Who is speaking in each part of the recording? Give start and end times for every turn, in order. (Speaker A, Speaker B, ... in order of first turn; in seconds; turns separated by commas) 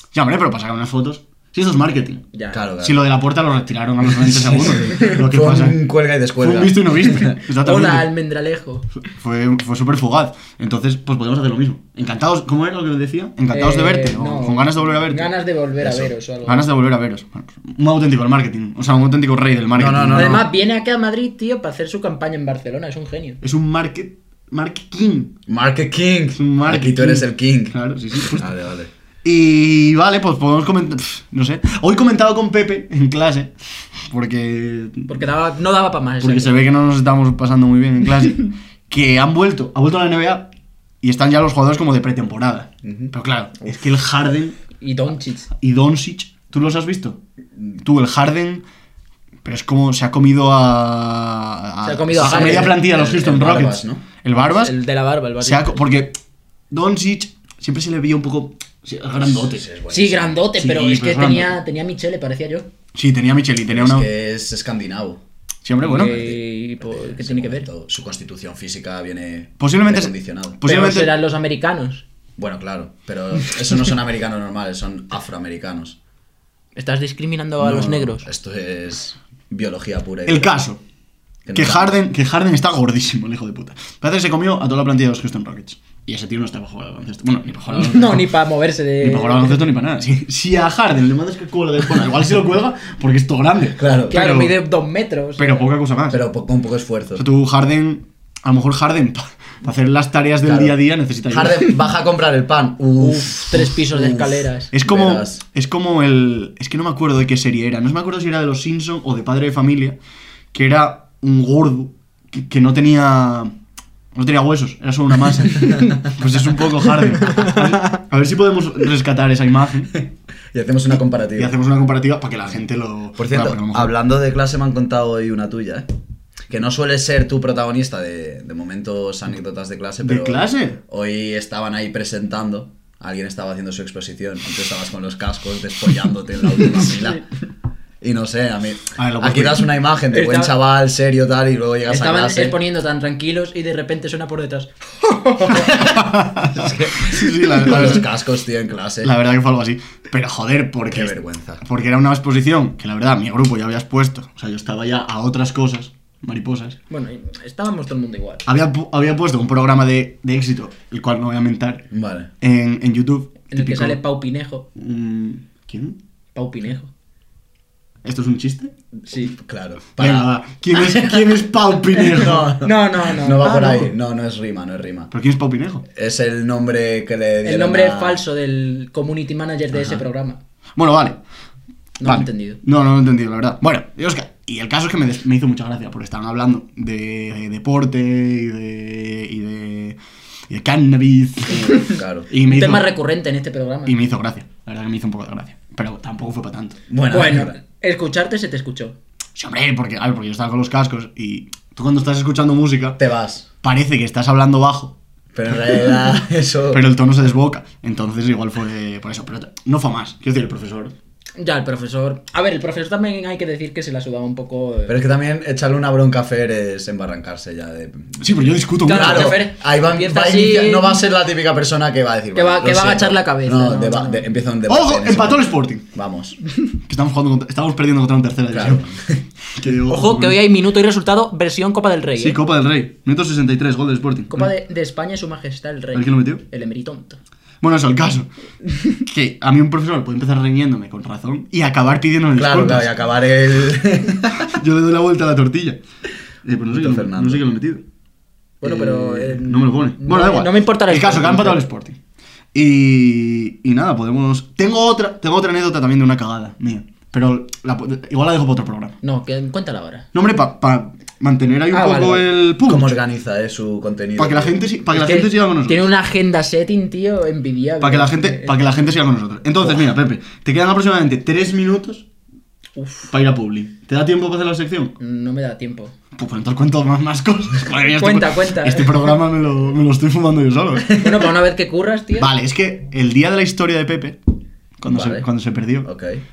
Speaker A: 0.1-2.2, Speaker B: 2.3-2.6, Speaker C: 2.5-3.0, Speaker A: 2.8-5.8, Speaker C: 4.9-7.4, Speaker A: 6.4-8.1, Speaker B: 7.6-8.9, Speaker A: 9.0-15.3, Speaker B: 13.5-16.7, Speaker C: 15.8-16.1, Speaker A: 16.4-20.5, Speaker C: 19.8-20.5, Speaker B: 20.1-23.4, Speaker A: 23.4-25.4, Speaker C: 25.5-28.9, Speaker A: 26.4-28.5, Speaker A: 29.2-35.2, Speaker B: 35.1-36.6, Speaker A: 36.2-40.5, Speaker A: 41.0-44.6, Speaker C: 42.8-43.1, Speaker B: 44.8-45.5, Speaker A: 45.5-47.2, Speaker A: 47.8-48.6, Speaker A: 49.4-54.7, Speaker B: 51.8-52.8, Speaker C: 52.2-54.0, Speaker B: 54.4-55.8, Speaker A: 55.4-56.2, Speaker A: 56.7-59.7, Speaker C: 59.3-60.4, Speaker B: 59.9-62.7, Speaker A: 60.6-61.6, Speaker A: 62.9-64.1, Speaker C: 63.7-65.2, Speaker A: 65.7-66.1, Speaker B: 65.8-67.7, Speaker C: 65.8-70.6, Speaker A: 69.6-71.2, Speaker B: 70.6-72.0, Speaker C: 72.4-76.0, Speaker B: 76.8-78.3, Speaker C: 77.6-80.6, Speaker A: 80.3-80.8, Speaker C: 81.5-82.0, Speaker A: 81.5-88.3, Speaker B: 87.7-89.6, Speaker A: 89.0-94.6, Speaker C: 93.8-94.2, Speaker B: 94.1-95.7, Speaker A: 95.4-96.2, Speaker C: 96.1-97.2, Speaker A: 97.2-101.7, Speaker C: 100.4-105.4, Speaker B: 103.0-104.7, Speaker A: 104.7-110.0, Speaker A: 110.5-113.5, Speaker A: 114.1-119.9, Speaker C: 120.5-121.5, Speaker A: 121.4-124.0, Speaker C: 123.2-125.9, Speaker C: 126.5-137.2, Speaker A: 130.0-130.8, Speaker C: 138.0-142.6, Speaker A: 139.0-139.7, Speaker B: 140.1-140.5, Speaker B: 141.9-146.0, Speaker A: 145.7-148.1, Speaker C: 146.5-149.1, Speaker A: 149.0-156.8, Speaker C: 150.9-151.6, Speaker B: 156.9-158.4, Speaker A: 158.5-161.9, Speaker C: 161.9-162.3, Speaker A: 162.4-164.0, Speaker B: 163.5-164.7, Speaker A: 164.8-166.0, Speaker B: 166.3-166.9, Speaker A: 168.0-168.7, Speaker C: 169.1-170.3, Speaker A: 170.0-172.5, Speaker C: 172.1-175.1, Speaker B: 172.2-173.9, Speaker A: 173.4-173.8, Speaker A: 175.1-175.8, Speaker C: 176.0-178.2, Speaker B: 177.4-180.4, Speaker A: 180.8-181.2, Speaker B: 182.0-182.6, Speaker A: 182.0-190.0, Speaker A: 190.5-192.9, Speaker C: 191.5-192.3, Speaker B: 192.4-194.0, Speaker A: 193.9-196.8, Speaker C: 196.9-197.6, Speaker B: 197.1-199.0, Speaker A: 199.4-203.0, Speaker C: 203.0-203.5, Speaker A: 203.6-205.0, Speaker C: 205.3-206.8, Speaker A: 206.7-210.9, Speaker B: 211.4-215.0, Speaker C: 214.9-226.4, Speaker A: 218.2-219.4, Speaker B: 218.8-221.0, Speaker B: 222.3-224.3, Speaker A: 224.7-225.8, Speaker A: 226.8-228.9, Speaker C: 228.5-229.2, Speaker A: 229.5-230.4, Speaker B: 229.9-232.4, Speaker A: 232.2-234.5, Speaker B: 234.3-237.2, Speaker A: 235.9-236.4, Speaker A: 237.6-238.3, Speaker A: 239.0-242.9, Speaker C: 242.4-244.5, Speaker A: 244.4-245.8, Speaker A: 246.4-247.8, Speaker C: 246.7-247.4, Speaker B: 248.6-251.6, Speaker A: 248.6-252.0, Speaker A: 252.5-259.0, Speaker B: 259.0-260.1, Speaker A: 260.1-262.9, Speaker B: 261.7-262.3, Speaker C: 262.6-264.6, Speaker A: 264.2-265.9, Speaker B: 264.9-268.6, Speaker A: 267.8-272.1, Speaker B: 272.8-273.1, Speaker A: 273.1-274.9, Speaker B: 275.0-275.9, Speaker A: 276.1-281.0, Speaker B: 277.9-279.1, Speaker B: 280.9-282.3, Speaker A: 282.2-284.2, Speaker A: 284.8-285.9, Speaker C: 284.9-285.3, Speaker C: 285.8-286.2